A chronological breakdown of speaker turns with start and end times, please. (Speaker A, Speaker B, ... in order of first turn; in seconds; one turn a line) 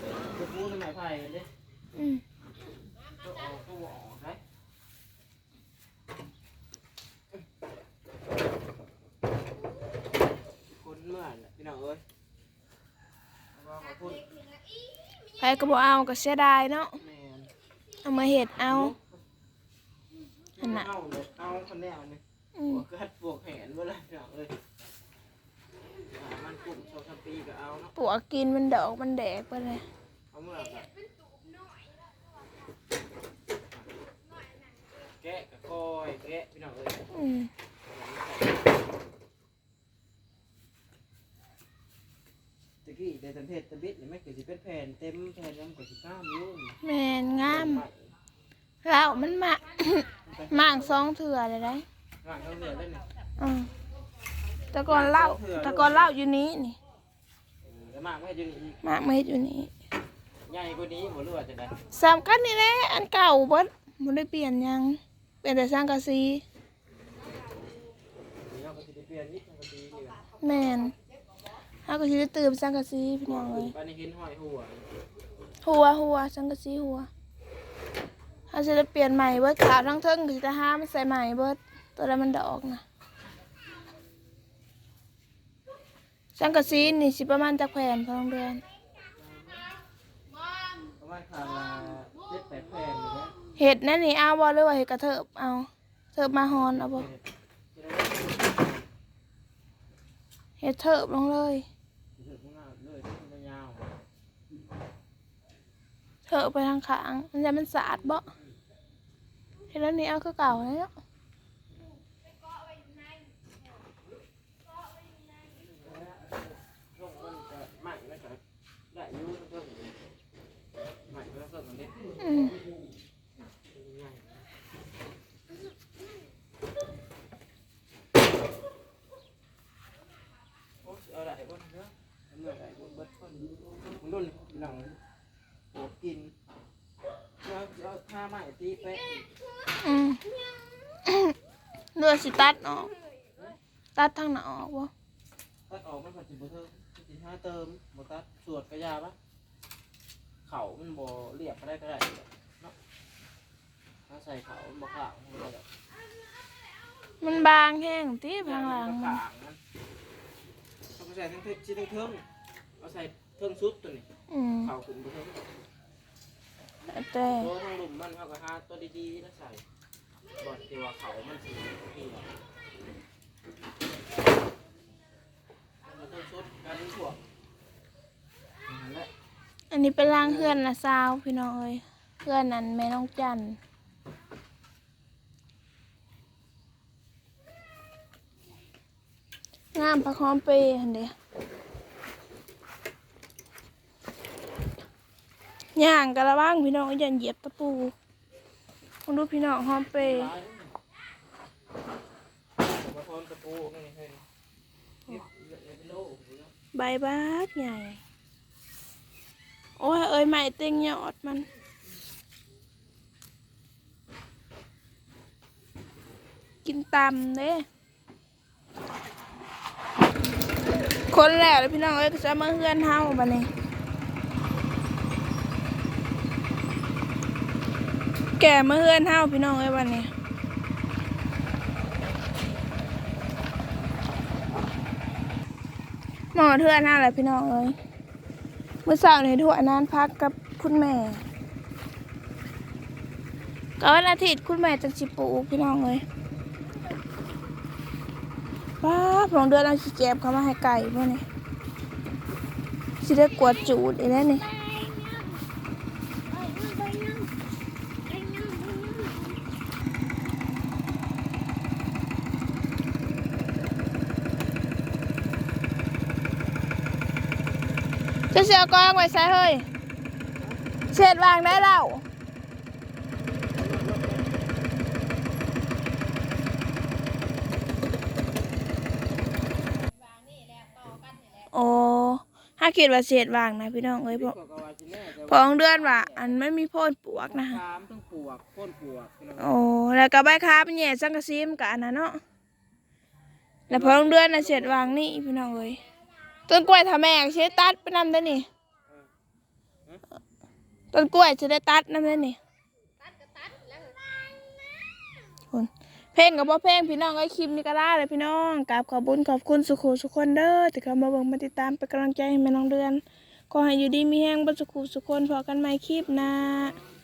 Speaker A: 0.3-1.5
Speaker B: 1.9-2.2
Speaker A: 3.2-4.4
Speaker A: 10.7-12.0
Speaker A: 13.5-14.3
Speaker C: 14.4-15.2
Speaker B: 15.4-17.0
Speaker A: 17.0-17.5
Speaker B: 18.0-18.9
Speaker A: 18.6-19.2
Speaker A: 20.6-24.5
Speaker B: 20.6-20.9
Speaker B: 22.6-22.8
Speaker A: 26.1-27.9
Speaker B: 27.9-29.8
Speaker A: 30.3-30.9
Speaker C: 31.5-31.9
Speaker A: 35.0-37.1
Speaker B: 37.1-37.5
Speaker A: 37.8-38.8
Speaker A: 42.8-46.8
Speaker B: 46.8-47.8
Speaker A: 47.4-48.1
Speaker B: 48.8-51.8
Speaker A: 50.2-51.1
Speaker A: 52.2-53.1
Speaker B: 53.4-53.7
Speaker B: 54.7-56.8
Speaker A: 54.9-56.1
Speaker A: 57.6-58.8
Speaker B: 58.8-59.7
Speaker A: 60.5-61.8
Speaker B: 61.9-66.4
Speaker A: 68.4-70.2
Speaker B: 70.4-70.9
Speaker B: 71.8-73.7
Speaker A: 73.2-74.9
Speaker B: 75.6-77.1
Speaker B: 78.5-82.8
Speaker B: 86.3-88.6
Speaker A: 86.4-86.9
Speaker A: 89.1-89.7
Speaker C: 90.5-90.8
Speaker A: 91.0-93.3
Speaker B: 93.5-97.1
Speaker A: 96.8-98.8
Speaker B: 100.6-101.7
Speaker A: 102.2-103.9
Speaker B: 106.3-108.2
Speaker B: 109.7-110.9
Speaker A: 115.5-116.4
Speaker A: 116.9-118.4
Speaker A: 118.9-120.0
Speaker A: 121.1-122.0
Speaker B: 122.2-122.6
Speaker A: 123.7-124.3
Speaker A: 130.8-135.0
Speaker A: 135.7-136.3
Speaker A: 137.4-139.3
Speaker B: 139.8-140.2
Speaker B: 141.1-141.3
Speaker B: 141.9-142.9
Speaker B: 143.9-144.9
Speaker A: 145.7-149.2
Speaker A: 150.4-152.7
Speaker A: 154.1-155.7
Speaker B: 157.2-159.2
Speaker A: 158.4-159.6
Speaker A: 160.9-162.2
Speaker A: 162.8-164.1
Speaker B: 164.3-164.7
Speaker A: 164.6-165.4
Speaker B: 166.9-167.5
Speaker A: 167.3-169.6
Speaker A: 170.4-172.3
Speaker A: 175.8-177.2
Speaker A: 178.7-179.1
Speaker B: 179.7-183.6
Speaker A: 180.0-180.6
Speaker B: 189.7-191.1
Speaker B: 195.8-197.9
Speaker B: 199.1-200.3
Speaker A: 199.9-200.7
Speaker A: 202.6-204.2
Speaker A: 205.1-206.5
Speaker B: 206.7-208.0
Speaker B: 209.8-211.5
Speaker B: 216.6-217.6
Speaker B: 221.1-223.5
Speaker B: 228.4-230.1
Speaker B: 236.3-237.8
Speaker B: 238.8-241.2
Speaker B: 243.8-246.0
Speaker B: 248.8-251.2
Speaker B: 253.0-254.5
Speaker C: 254.5-255.4
Speaker C: 256.3-257.3
Speaker C: 258.1-259.4
Speaker B: 268.3-269.7
Speaker B: 270.9-272.0
Speaker A: 273.3-274.4
Speaker C: 280.3-281.1
Speaker B: 281.5-284.3
Speaker A: 284.1-286.4
Speaker B: 285.3-287.6
Speaker A: 287.2-289.6
Speaker B: 289.4-292.2
Speaker A: 293.7-295.0
Speaker B: 293.7-295.8
Speaker B: 296.5-298.5
Speaker B: 300.9-302.4
Speaker C: 303.0-304.0
Speaker B: 305.5-316.8